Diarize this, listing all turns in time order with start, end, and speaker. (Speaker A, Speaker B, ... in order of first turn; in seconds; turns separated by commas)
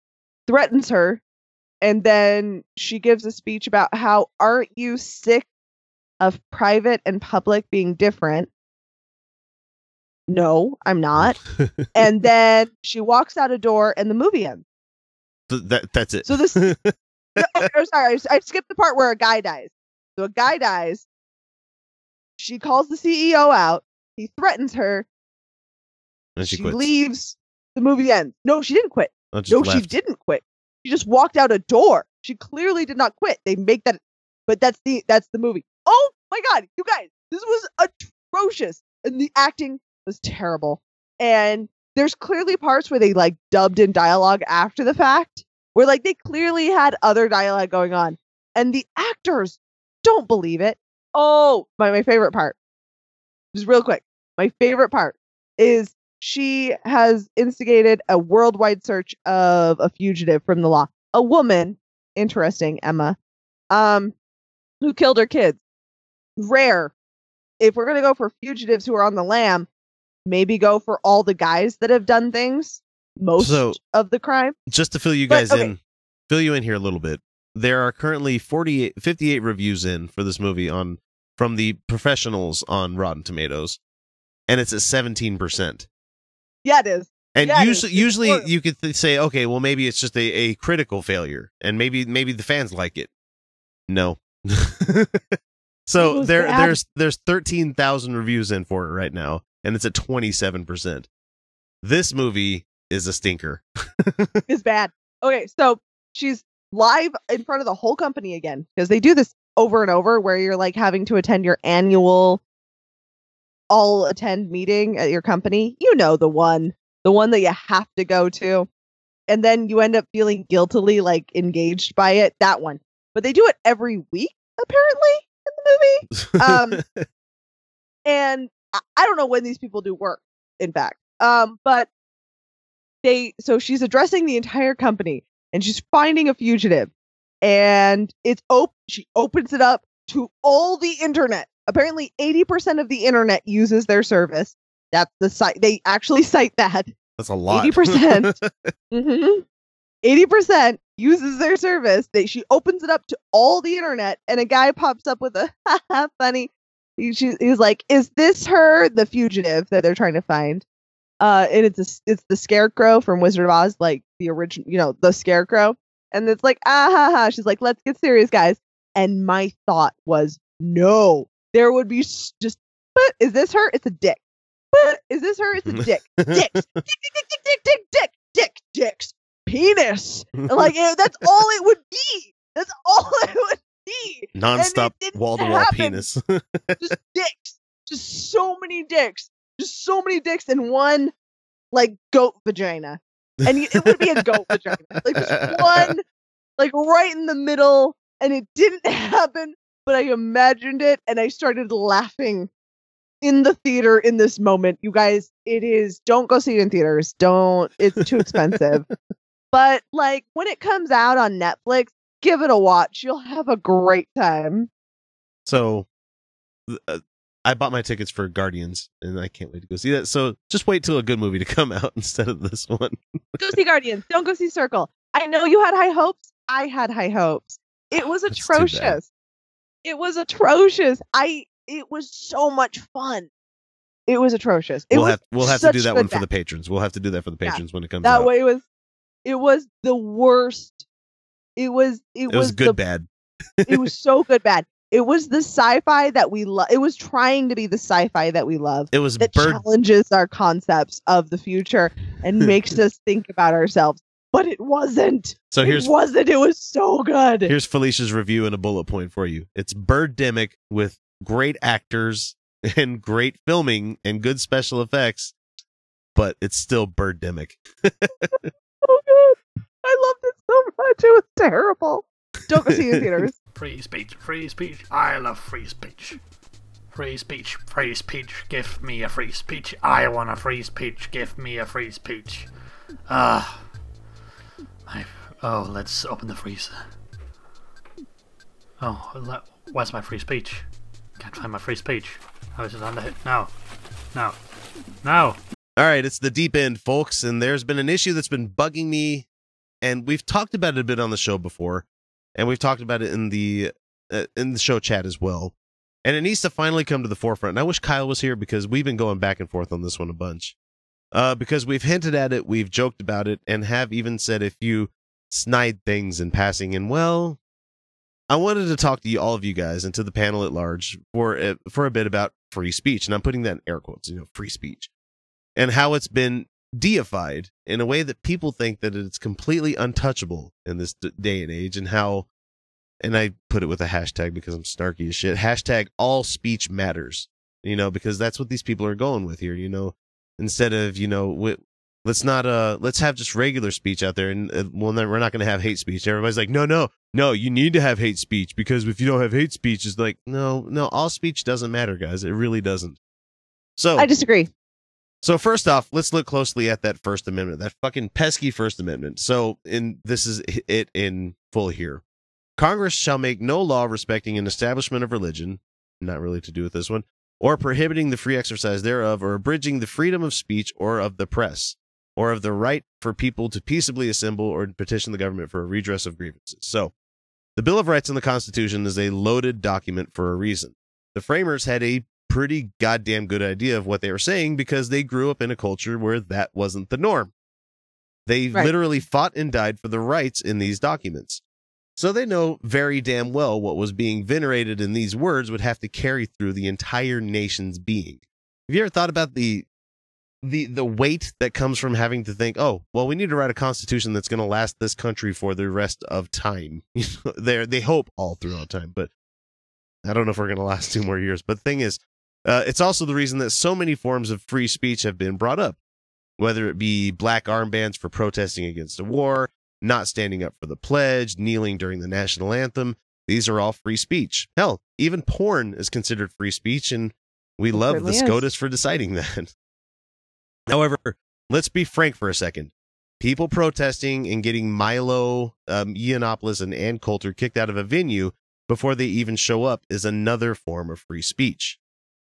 Speaker A: 0.5-1.2, Speaker A: 1.8-5.5, Speaker A: 6.2-8.5, Speaker A: 10.3-11.4, Speaker B: 11.2-11.9, Speaker A: 11.9-14.6, Speaker B: 15.5-17.6, Speaker A: 16.2-16.7, Speaker A: 17.4-21.0, Speaker A: 22.4-25.1, Speaker B: 26.4-26.9, Speaker A: 26.5-52.5, Speaker B: 29.3-29.9, Speaker A: 53.5-63.2, Speaker A: 63.7-64.1, Speaker A: 64.8-65.6, Speaker A: 66.4-66.9, Speaker A: 67.6-69.7, Speaker A: 70.2-74.5, Speaker B: 73.4-73.8, Speaker B: 74.7-83.8, Speaker A: 75.3-75.7, Speaker B: 84.5-85.9, Speaker A: 86.6-88.5, Speaker B: 87.3-93.1, Speaker B: 93.9-101.1, Speaker A: 96.0-96.8, Speaker B: 101.8-104.4, Speaker A: 104.5-112.4, Speaker A: 113.7-118.7, Speaker A: 119.3-126.8, Speaker B: 126.1-127.0, Speaker A: 128.1-131.9, Speaker A: 133.0-136.9, Speaker A: 137.4-146.9, Speaker B: 147.2-148.7, Speaker A: 147.5-148.4, Speaker A: 148.9-149.4, Speaker A: 150.0-160.6, Speaker A: 161.2-174.2, Speaker A: 174.7-186.0, Speaker B: 175.7-176.8, Speaker B: 184.3-186.9, Speaker A: 186.8-191.1, Speaker A: 191.7-196.0, Speaker B: 193.5-194.2, Speaker B: 194.9-195.9, Speaker A: 196.6-202.5, Speaker A: 203.2-208.9, Speaker B: 208.2-208.9, Speaker A: 209.5-214.7, Speaker B: 215.4-215.9, Speaker B: 216.7-223.0, Speaker A: 223.4-229.1, Speaker B: 228.3-229.0, Speaker A: 229.8-233.3, Speaker A: 234.1-236.2, Speaker B: 234.9-238.3, Speaker A: 237.4-238.6, Speaker A: 239.2-240.8, Speaker A: 241.6-242.8, Speaker B: 242.3-243.1, Speaker B: 243.6-243.9, Speaker A: 243.7-257.5, Speaker B: 248.9-249.6, Speaker B: 255.5-255.9, Speaker B: 257.5-265.3, Speaker B: 266.1-268.5, Speaker A: 268.8-273.3, Speaker B: 272.7-273.0, Speaker C: 273.5-276.2, Speaker C: 276.9-282.5, Speaker C: 283.1-283.6, Speaker C: 284.9-286.8, Speaker C: 288.8-290.7, Speaker C: 291.2-293.5, Speaker C: 295.0-295.4, Speaker B: 295.8-299.2, Speaker B: 299.8-310.5, Speaker B: 311.1-317.4, Speaker B: 318.3-324.9, Speaker B: 325.6-332.2, Speaker B: 333.0-353.0, Speaker B: 353.8-354.1, Speaker A: 354.0-354.5, Speaker B: 355.2-362.0, Speaker B: 362.6-376.9, Speaker B: 377.6-387.3, Speaker B: 388.2-391.4, Speaker B: 391.9-399.6, Speaker B: 400.4-409.1, Speaker B: 410.0-415.8, Speaker B: 416.4-429.5, Speaker A: 427.7-428.5, Speaker B: 430.7-441.8